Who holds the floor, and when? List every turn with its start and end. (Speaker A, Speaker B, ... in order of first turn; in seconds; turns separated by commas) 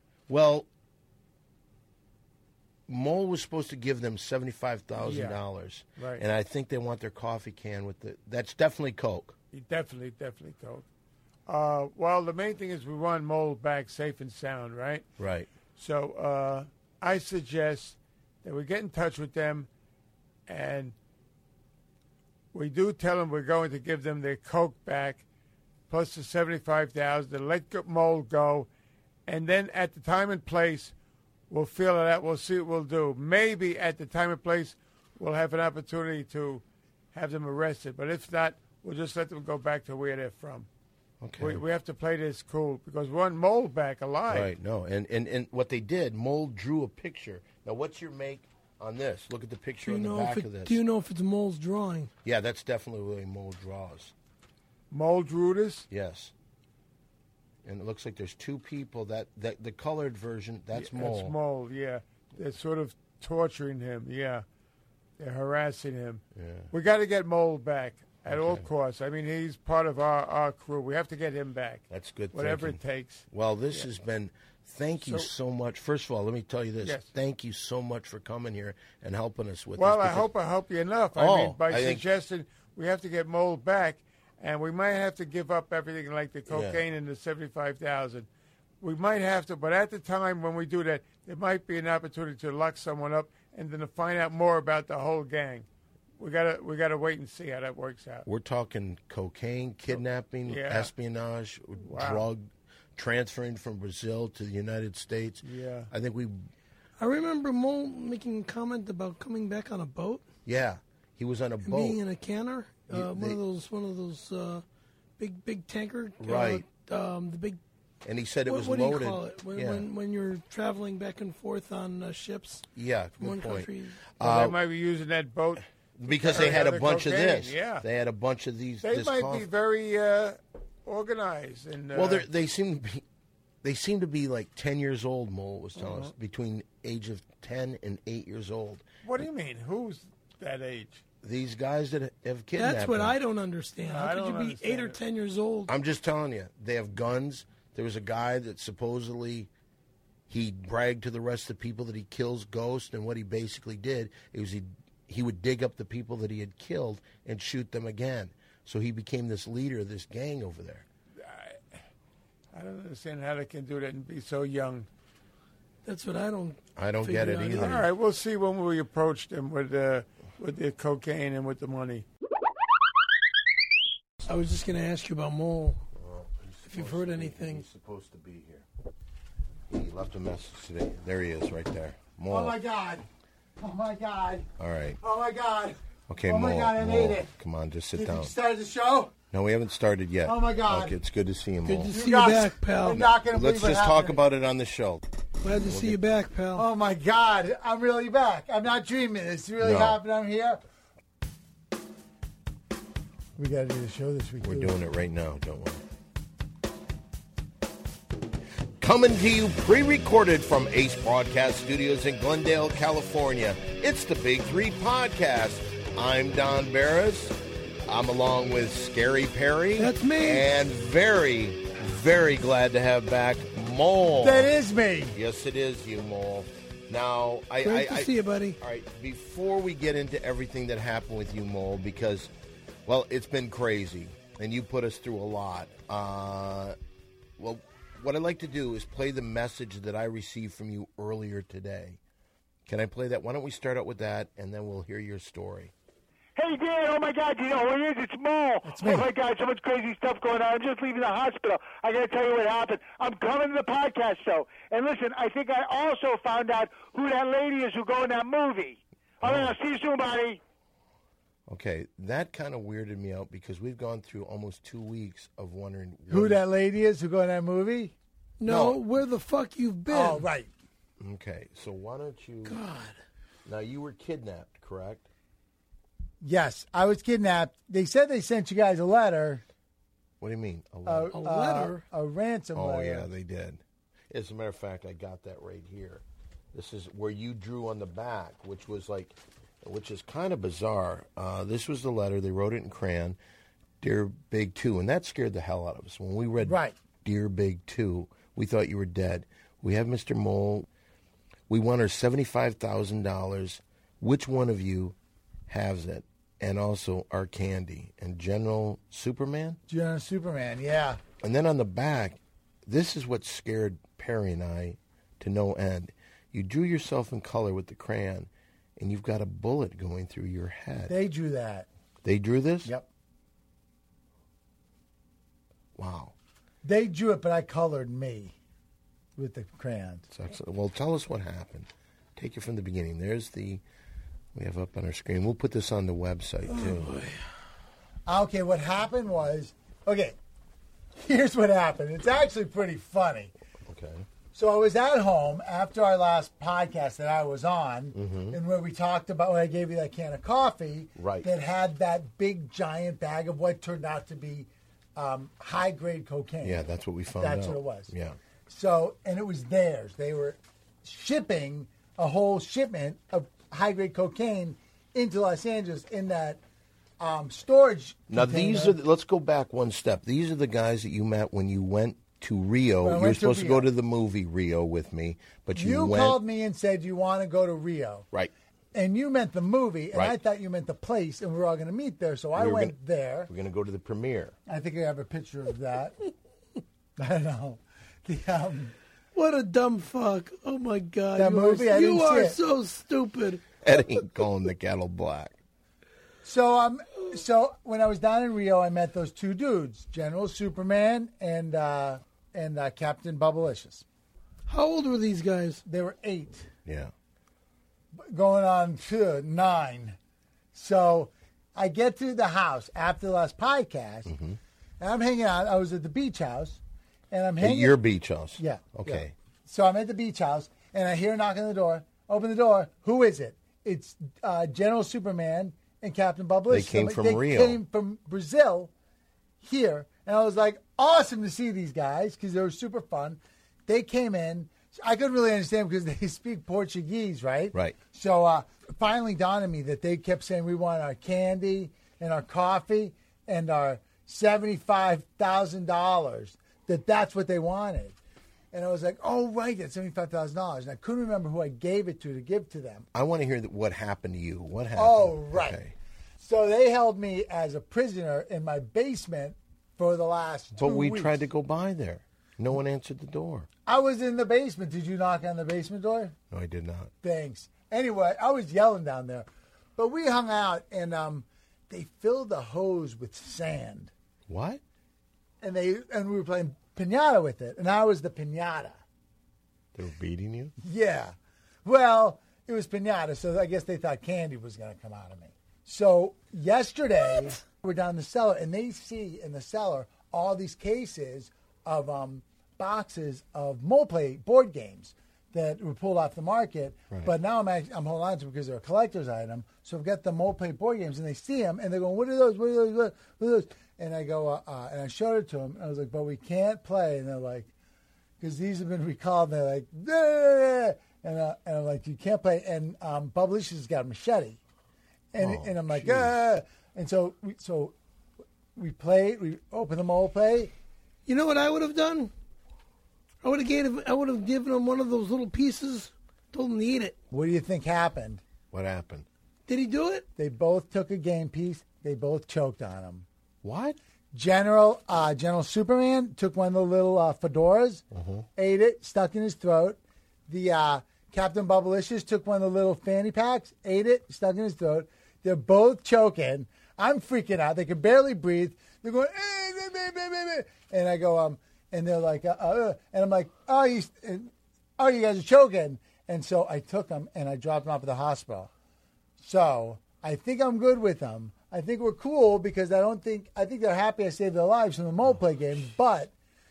Speaker A: 0.3-0.7, Speaker A: 2.9-9.3, Speaker B: 5.0-5.4, Speaker B: 6.0-6.2, Speaker B: 9.5-10.8, Speaker B: 11.5-15.0, Speaker A: 15.2-15.5, Speaker B: 15.8-19.7, Speaker B: 20.5-20.9, Speaker B: 22.5-25.2, Speaker B: 25.9-28.7, Speaker B: 29.2-30.9, Speaker B: 31.5-36.6, Speaker B: 37.1-40.7, Speaker A: 41.2-41.6, Speaker B: 41.4-44.5, Speaker A: 44.3-50.8, Speaker C: 49.8-52.1, Speaker A: 52.2-54.1, Speaker B: 54.9-55.9, Speaker A: 55.9-56.3, Speaker A: 57.6-61.3, Speaker B: 60.7-64.4, Speaker B: 65.2-73.9, Speaker A: 66.3-66.7, Speaker A: 68.3-68.7, Speaker A: 71.9-80.3, Speaker B: 75.0-75.3, Speaker B: 76.8-77.1, Speaker B: 79.8-88.3, Speaker A: 81.1-82.0, Speaker A: 86.5-86.8, Speaker B: 88.8-95.7, Speaker B: 96.2-98.2, Speaker A: 98.2-106.5, Speaker B: 99.9-100.9, Speaker B: 101.8-102.3, Speaker B: 105.4-105.9, Speaker C: 107.0-110.2, Speaker A: 110.5-112.0, Speaker C: 111.6-114.6, Speaker A: 112.9-113.4, Speaker C: 115.2-117.6, Speaker A: 116.2-116.6, Speaker A: 118.0-119.9, Speaker C: 118.5-122.7, Speaker A: 122.7-124.6, Speaker C: 123.2-124.1, Speaker B: 124.2-127.8, Speaker A: 126.0-129.4, Speaker B: 128.8-132.3, Speaker A: 131.9-133.0, Speaker A: 133.6-138.9, Speaker B: 135.8-136.1, Speaker B: 139.0-141.0, Speaker A: 141.2-143.2, Speaker C: 142.6-145.7, Speaker B: 143.8-145.0, Speaker A: 145.7-149.5, Speaker A: 150.3-160.8, Speaker B: 161.2-161.8, Speaker B: 162.5-164.9, Speaker C: 165.8-167.8, Speaker A: 166.8-167.9, Speaker B: 167.5-172.0, Speaker C: 174.2-175.8, Speaker A: 175.9-178.7, Speaker C: 176.7-177.6, Speaker A: 179.7-182.6, Speaker D: 182.3-183.0, Speaker D: 183.6-184.5, Speaker A: 184.6-185.0, Speaker D: 185.0-187.3, Speaker A: 186.1-188.3, Speaker D: 187.9-189.1, Speaker A: 189.3-191.9, Speaker D: 190.2-191.0, Speaker C: 191.6-193.1, Speaker D: 191.9-194.2, Speaker A: 193.3-195.0, Speaker C: 195.4-196.7, Speaker A: 195.6-196.0, Speaker D: 196.5-200.6, Speaker A: 199.6-200.0, Speaker D: 203.3-204.8, Speaker A: 204.4-205.8, Speaker A: 208.8-217.3, Speaker A: 217.8-224.5, Speaker C: 219.8-220.5, Speaker D: 224.2-225.2, Speaker A: 225.1-232.3, Speaker C: 227.6-228.6, Speaker A: 232.8-236.8, Speaker A: 237.4-242.0, Speaker A: 242.7-245.7, Speaker E: 246.3-260.4, Speaker D: 248.6-249.1, Speaker A: 259.2-259.5, Speaker A: 261.5-266.4, Speaker D: 266.1-267.9, Speaker C: 268.4-270.2, Speaker A: 268.4-268.8, Speaker D: 269.9-270.5, Speaker A: 271.0-272.6, Speaker C: 272.4-272.9, Speaker A: 273.4-275.1, Speaker D: 276.2-279.4, Speaker A: 280.2-281.2, Speaker D: 280.9-283.1, Speaker C: 281.1-281.8, Speaker A: 282.5-286.0, Speaker A: 286.5-293.2, Speaker A: 293.8-300.7, Speaker D: 296.4-296.8, Speaker A: 301.5-304.9, Speaker A: 305.5-309.6, Speaker D: 309.7-311.0, Speaker A: 311.2-320.9, Speaker D: 320.9-321.7, Speaker A: 322.0-322.7, Speaker A: 325.8-326.1, Speaker D: 326.6-328.3, Speaker D: 329.1-330.0, Speaker A: 330.1-333.6, Speaker A: 334.3-337.0, Speaker C: 336.5-337.1, Speaker D: 338.1-340.1, Speaker D: 340.9-343.3, Speaker A: 343.7-344.1, Speaker D: 344.3-356.6, Speaker A: 347.9-348.4, Speaker A: 350.9-351.3, Speaker A: 356.4-358.2, Speaker D: 357.1-357.9, Speaker D: 358.5-366.4, Speaker D: 367.0-368.8, Speaker A: 368.1-376.2, Speaker D: 372.8-373.7, Speaker D: 375.5-378.1, Speaker D: 378.7-383.3, Speaker A: 382.4-382.8, Speaker A: 383.3-384.4, Speaker D: 384.5-386.0, Speaker D: 387.0-388.7, Speaker C: 389.1-393.4, Speaker D: 391.1-392.4, Speaker A: 393.6-395.4, Speaker D: 396.2-403.8, Speaker C: 404.5-405.6, Speaker D: 405.6-406.5, Speaker A: 406.6-406.9, Speaker D: 407.9-410.0, Speaker D: 410.5-414.1, Speaker A: 414.1-414.4, Speaker D: 414.8-416.6, Speaker D: 417.1-417.8, Speaker A: 417.4-419.1, Speaker D: 418.4-428.7, Speaker A: 426.5-427.6, Speaker D: 429.4-447.9, Speaker D: 448.5-452.9, Speaker A: 452.9-455.7, Speaker D: 454.7-455.6, Speaker D: 456.2-461.2, Speaker A: 460.6-463.5, Speaker D: 463.6-466.1, Speaker A: 466.3-466.9, Speaker D: 467.0-473.9, Speaker A: 474.3-474.6, Speaker D: 475.4-478.8, Speaker A: 479.7-480.5, Speaker D: 480.6-507.5, Speaker D: 508.2-514.4, Speaker D: 515.1-517.7, Speaker A: 515.2-516.1, Speaker D: 518.5-520.5, Speaker C: 521.0-522.1, Speaker C: 523.2-526.9, Speaker D: 527.1-528.2, Speaker A: 528.5-529.0, Speaker C: 529.5-530.0, Speaker D: 530.2-533.0, Speaker A: 533.4-533.8, Speaker D: 534.1-537.8, Speaker A: 537.9-538.2, Speaker D: 538.4-558.5, Speaker D: 559.2-566.1